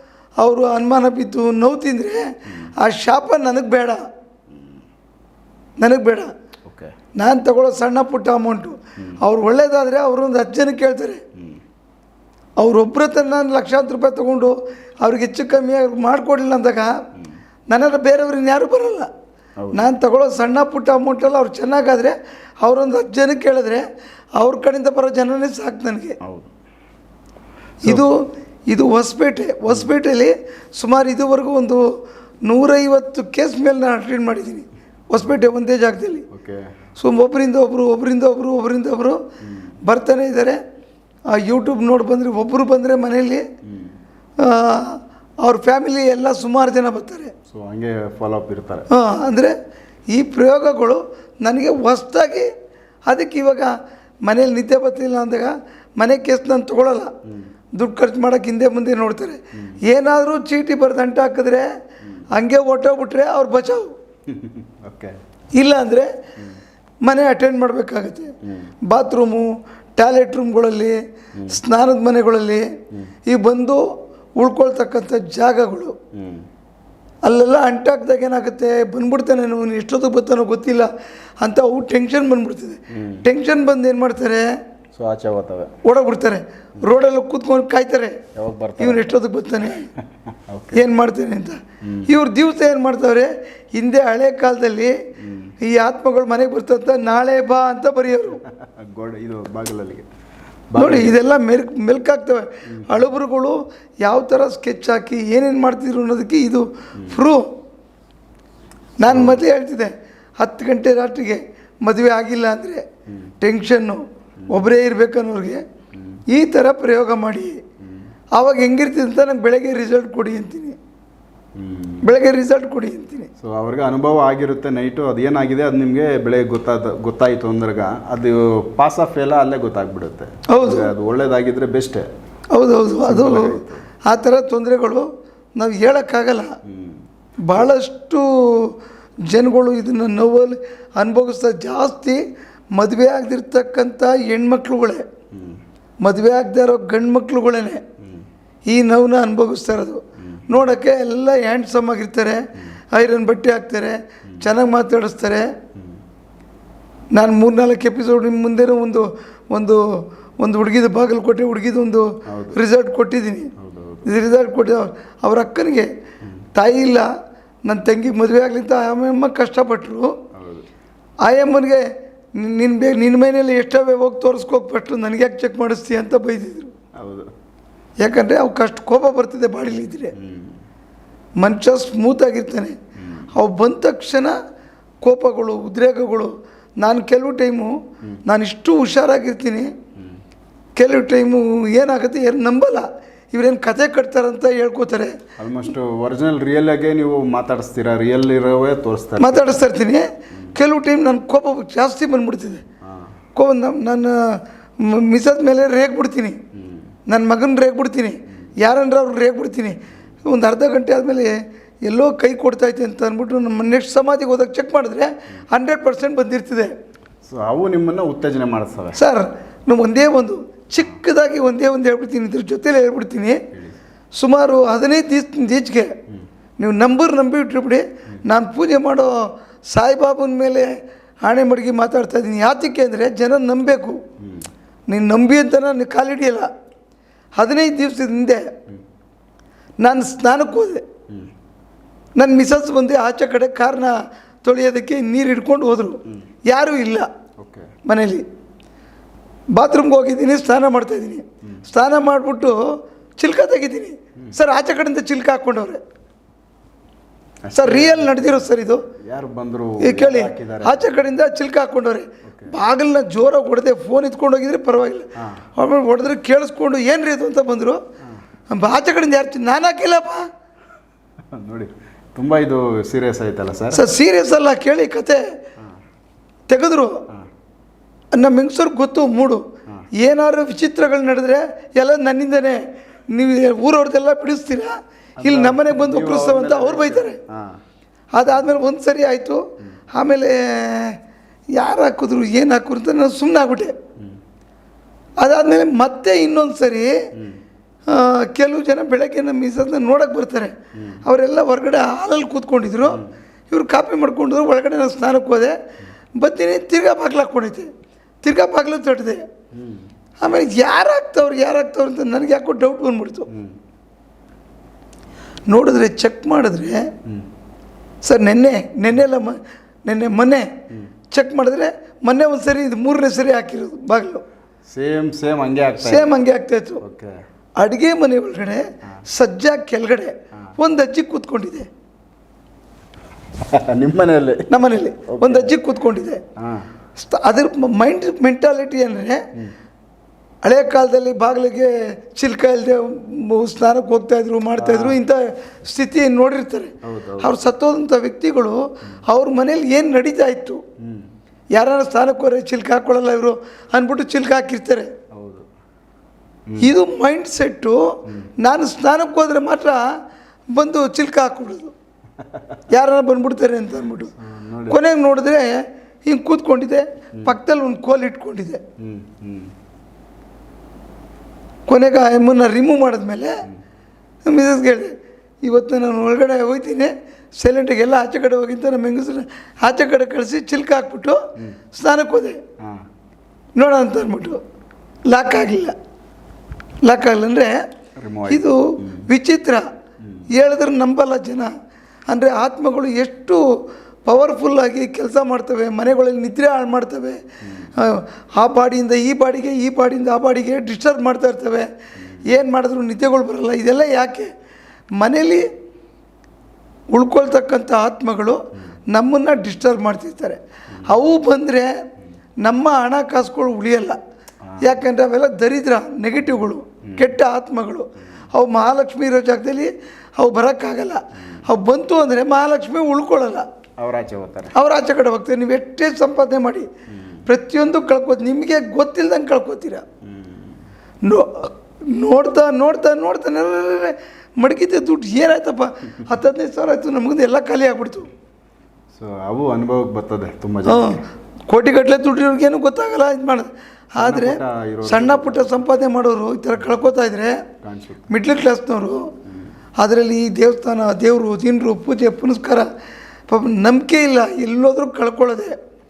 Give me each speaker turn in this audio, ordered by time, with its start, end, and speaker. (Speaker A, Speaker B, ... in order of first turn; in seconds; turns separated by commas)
Speaker A: 0.4-4.0, Speaker B: 2.5-2.7, Speaker B: 4.5-4.8, Speaker A: 5.8-6.3, Speaker B: 6.7-6.9, Speaker A: 7.2-11.2, Speaker B: 11.4-11.6, Speaker A: 12.6-16.9, Speaker A: 17.7-19.1, Speaker B: 19.6-19.9, Speaker A: 19.7-23.8, Speaker A: 24.4-26.2, Speaker B: 26.2-26.5, Speaker A: 27.8-28.2, Speaker A: 28.7-31.9, Speaker A: 32.5-36.3, Speaker B: 36.3-36.7, Speaker A: 37.0-39.2, Speaker B: 39.4-39.8, Speaker A: 39.9-40.6, Speaker A: 41.3-43.5, Speaker B: 43.6-44.0, Speaker A: 44.4-47.3, Speaker B: 47.5-48.9, Speaker A: 48.9-49.5, Speaker A: 50.1-52.5, Speaker A: 53.1-53.7, Speaker A: 54.3-57.1, Speaker A: 57.8-61.7, Speaker B: 59.5-59.8, Speaker B: 62.0-62.3, Speaker A: 62.3-63.9, Speaker B: 64.3-65.2, Speaker A: 65.5-66.1, Speaker A: 67.0-68.3, Speaker B: 68.4-68.7, Speaker A: 68.9-71.0, Speaker A: 71.5-72.7, Speaker A: 73.3-73.8, Speaker A: 74.4-76.0, Speaker B: 76.1-76.5, Speaker A: 77.2-80.9, Speaker A: 81.4-84.5, Speaker B: 82.9-83.2, Speaker B: 85.0-85.7, Speaker A: 85.8-88.2, Speaker B: 88.3-89.1, Speaker A: 88.8-89.9, Speaker B: 90.3-90.8, Speaker A: 90.7-95.0, Speaker B: 91.8-92.1, Speaker B: 95.2-95.5, Speaker A: 95.6-98.4, Speaker B: 98.4-100.1, Speaker B: 100.7-101.2, Speaker A: 100.8-107.5, Speaker B: 102.7-103.1, Speaker A: 109.0-112.8, Speaker B: 109.1-109.4, Speaker A: 113.4-115.6, Speaker B: 114.4-114.7, Speaker B: 115.9-116.2, Speaker A: 116.3-117.6, Speaker B: 117.8-118.1, Speaker A: 118.3-120.8, Speaker B: 121.5-122.0, Speaker A: 122.0-123.3, Speaker B: 123.4-132.1, Speaker A: 130.5-130.9, Speaker A: 132.5-136.6, Speaker B: 133.0-133.9, Speaker B: 136.6-137.0, Speaker A: 137.4-138.7, Speaker A: 139.3-142.2, Speaker A: 142.8-145.1, Speaker B: 145.3-145.6, Speaker A: 146.0-147.8, Speaker B: 148.0-148.3, Speaker A: 148.7-155.5, Speaker B: 150.2-150.7, Speaker B: 154.3-154.5, Speaker B: 155.8-156.0, Speaker A: 157.1-159.8, Speaker A: 160.4-163.5, Speaker B: 162.3-162.6, Speaker B: 163.6-164.1, Speaker A: 164.1-165.9, Speaker A: 166.6-167.1, Speaker A: 167.7-170.2, Speaker B: 170.3-170.7, Speaker A: 171.2-176.7, Speaker B: 177.0-177.3, Speaker A: 178.0-180.1, Speaker B: 180.2-180.6, Speaker A: 181.4-182.8, Speaker B: 183.0-183.3, Speaker A: 183.3-184.4, Speaker A: 185.0-187.7, Speaker A: 188.3-189.7, Speaker A: 190.8-195.2, Speaker B: 195.4-199.6, Speaker A: 199.2-202.6, Speaker B: 202.8-203.2, Speaker A: 203.3-206.4, Speaker B: 206.5-206.9, Speaker A: 207.1-216.7, Speaker B: 217.2-219.0, Speaker A: 218.9-223.4, Speaker B: 223.5-223.8, Speaker A: 224.2-226.0, Speaker A: 226.6-230.7, Speaker A: 231.2-234.0, Speaker B: 234.2-234.5, Speaker A: 234.9-236.5, Speaker A: 237.4-238.5, Speaker A: 239.8-240.8, Speaker A: 242.2-247.1, Speaker B: 247.4-247.7, Speaker A: 247.9-248.2, Speaker A: 249.5-252.6, Speaker A: 253.2-255.8, Speaker B: 257.4-258.5, Speaker A: 257.6-258.8, Speaker B: 259.0-260.9, Speaker A: 259.8-267.8, Speaker B: 262.2-262.5, Speaker B: 265.2-265.4, Speaker A: 268.5-270.3, Speaker B: 271.3-273.9, Speaker A: 273.7-275.2, Speaker A: 276.5-277.0, Speaker A: 278.1-279.4, Speaker A: 280.0-282.6, Speaker A: 283.1-287.2, Speaker B: 285.2-287.6, Speaker A: 288.1-289.4, Speaker A: 289.9-291.0, Speaker A: 291.5-293.7, Speaker A: 295.2-296.9, Speaker B: 297.1-297.4, Speaker A: 297.9-300.5, Speaker B: 300.7-301.0, Speaker A: 301.1-305.6, Speaker B: 302.9-303.1, Speaker A: 306.2-307.7, Speaker A: 308.2-309.2, Speaker B: 309.5-309.9, Speaker A: 310.2-313.3, Speaker B: 313.3-313.6, Speaker A: 315.5-316.9, Speaker A: 318.0-320.5, Speaker A: 321.1-324.2, Speaker B: 324.6-326.1, Speaker A: 325.8-326.8, Speaker B: 326.8-327.2, Speaker A: 327.6-331.7, Speaker B: 333.4-335.6, Speaker A: 334.5-336.2, Speaker B: 336.4-336.7, Speaker A: 337.0-339.3, Speaker A: 340.4-350.6, Speaker B: 344.6-345.0, Speaker B: 346.8-347.5, Speaker B: 350.8-351.1, Speaker A: 351.6-354.9, Speaker B: 355.1-355.5, Speaker B: 356.5-356.8, Speaker A: 356.6-359.8, Speaker B: 358.1-358.3, Speaker A: 360.5-361.7, Speaker B: 362.2-362.6, Speaker A: 362.7-364.1, Speaker B: 364.2-364.8, Speaker A: 364.7-368.6, Speaker B: 368.8-369.5, Speaker A: 371.7-373.4, Speaker A: 374.3-381.2, Speaker A: 381.7-382.4, Speaker B: 382.6-382.9, Speaker A: 383.6-384.4, Speaker A: 385.1-385.8, Speaker A: 386.9-387.6, Speaker B: 388.0-389.1, Speaker A: 388.3-389.7, Speaker B: 390.0-390.3, Speaker A: 390.3-391.5, Speaker A: 392.1-393.4, Speaker A: 394.1-397.2, Speaker B: 397.4-397.7, Speaker A: 397.8-401.7, Speaker B: 402.0-402.3, Speaker A: 402.2-404.3, Speaker A: 405.0-405.5, Speaker A: 406.9-411.8, Speaker A: 412.4-414.0, Speaker B: 414.4-414.8, Speaker A: 414.6-423.5, Speaker B: 416.9-417.2, Speaker B: 423.8-424.5, Speaker A: 424.5-426.7, Speaker B: 426.9-427.2, Speaker A: 427.3-429.8, Speaker B: 430.0-430.6, Speaker A: 431.1-438.1, Speaker B: 438.9-441.0, Speaker A: 440.7-447.4, Speaker B: 444.0-445.6, Speaker B: 446.6-446.9, Speaker B: 447.6-448.1, Speaker A: 448.1-449.1, Speaker B: 449.3-449.5, Speaker A: 449.8-452.7, Speaker A: 453.3-455.6